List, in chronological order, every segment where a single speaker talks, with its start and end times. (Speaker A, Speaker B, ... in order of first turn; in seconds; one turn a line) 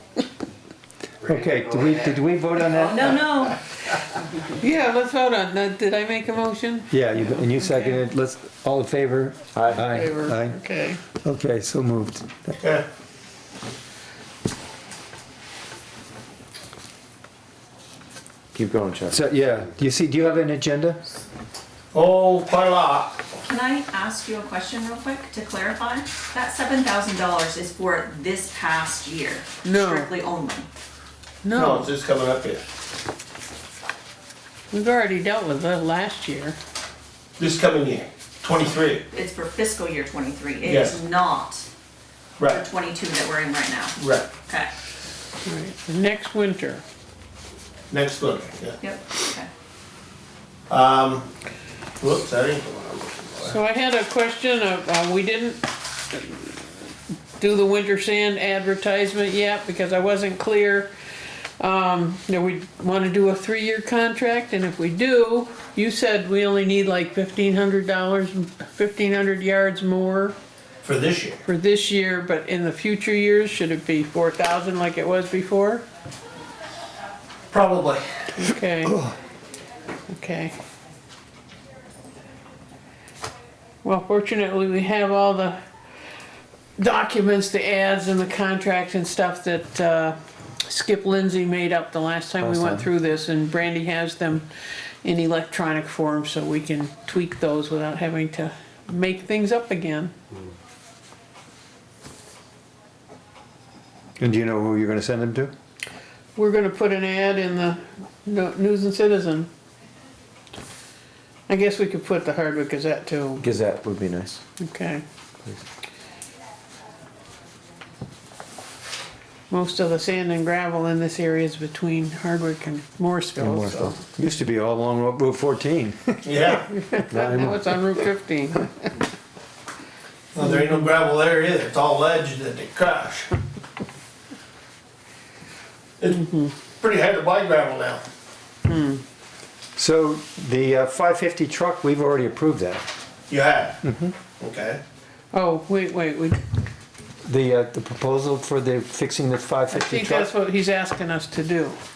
Speaker A: 1.2-3.3
Speaker B: 2.7-3.6
Speaker C: 4.4-8.0
Speaker A: 6.9-10.6
Speaker D: 9.5-9.8
Speaker C: 9.8-11.0
Speaker A: 11.2-12.5
Speaker E: 12.6-12.8
Speaker D: 18.5-19.2
Speaker A: 19.1-21.0
Speaker E: 21.9-23.2
Speaker B: 23.4-30.7
Speaker C: 29.6-30.1
Speaker C: 31.4-31.9
Speaker E: 31.5-32.6
Speaker C: 34.7-36.5
Speaker E: 37.4-39.0
Speaker B: 39.1-41.6
Speaker E: 40.6-41.0
Speaker E: 42.4-42.6
Speaker B: 42.4-44.7
Speaker E: 44.0-44.3
Speaker C: 45.4-46.8
Speaker E: 47.9-48.8
Speaker B: 48.8-49.5
Speaker E: 50.7-51.2
Speaker E: 52.0-53.6
Speaker C: 53.4-56.8
Speaker C: 57.4-60.9
Speaker C: 61.6-70.3
Speaker E: 70.8-71.4
Speaker C: 71.4-75.8
Speaker E: 77.5-78.0
Speaker C: 78.3-79.0
Speaker A: 78.8-79.2
Speaker C: 80.1-80.5
Speaker C: 83.8-85.6
Speaker C: 86.8-94.5
Speaker C: 95.0-100.1
Speaker A: 104.2-105.5
Speaker C: 106.3-109.5
Speaker C: 111.5-113.5
Speaker D: 113.4-114.4
Speaker C: 114.6-115.0
Speaker C: 119.5-124.0
Speaker A: 123.4-126.5
Speaker E: 126.2-126.7
Speaker C: 126.8-128.9
Speaker A: 127.1-127.7
Speaker E: 130.3-133.3
Speaker E: 136.0-136.2
Speaker C: 136.1-136.6
Speaker E: 136.8-138.0
Speaker C: 138.7-139.0
Speaker A: 139.8-142.8
Speaker E: 143.3-143.8
Speaker A: 143.8-144.1
Speaker E: 144.4-144.8
Speaker C: 145.3-146.4
Speaker A: 147.2-150.3
Speaker C: 149.7-151.8